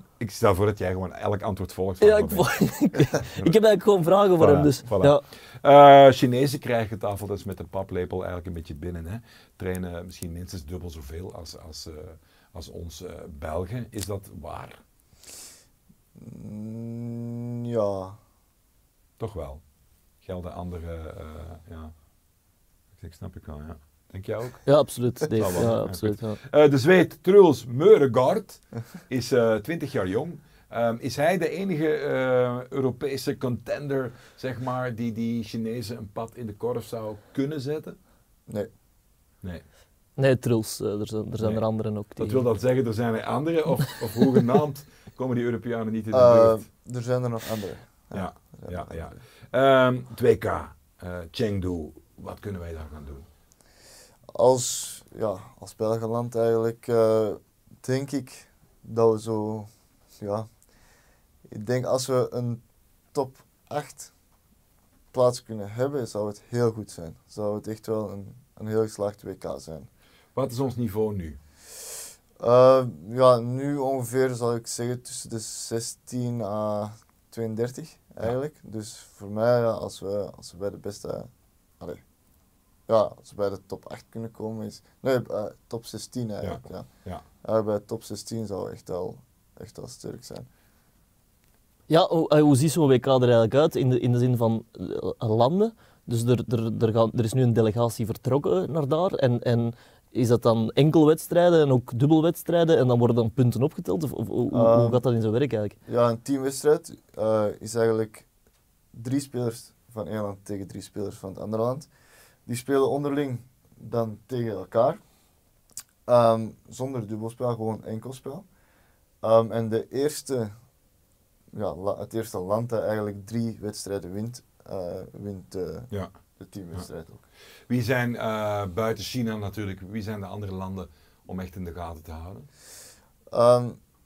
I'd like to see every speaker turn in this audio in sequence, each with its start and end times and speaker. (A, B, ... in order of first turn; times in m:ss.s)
0:00.2-0:02.5 A
0:02.0-0:05.2 B
0:03.3-0:03.5 A
0:04.4-0:14.8 A
0:16.2-0:18.2 C
0:19.2-0:19.6 A
0:20.2-0:21.9 A
0:23.0-0:24.6 A
0:24.6-0:26.4 B
0:25.4-0:38.0 A
0:40.2-0:42.5 B
0:42.2-0:46.6 A
0:46.1-0:49.2 C
0:48.1-0:53.3 A
0:54.3-0:59.7 C
1:00.2-1:00.5 C
1:01.5-1:02.6 C
1:03.1-1:04.1 C
1:05.1-1:09.9 C
1:10.3-1:11.4 A
1:12.4-1:22.0 C
1:22.9-1:26.9 C
1:26.4-1:27.2 A
1:27.4-1:30.5 C
1:31.9-1:45.8 B
1:44.5-1:45.0 C
1:45.8-1:48.3 C
1:48.9-1:51.9 C
1:52.5-1:55.0 C
1:56.0-1:58.5 C
1:59.2-2:00.5 C
2:01.5-2:07.3 C
2:07.7-2:12.5 A
2:13.3-2:13.8 C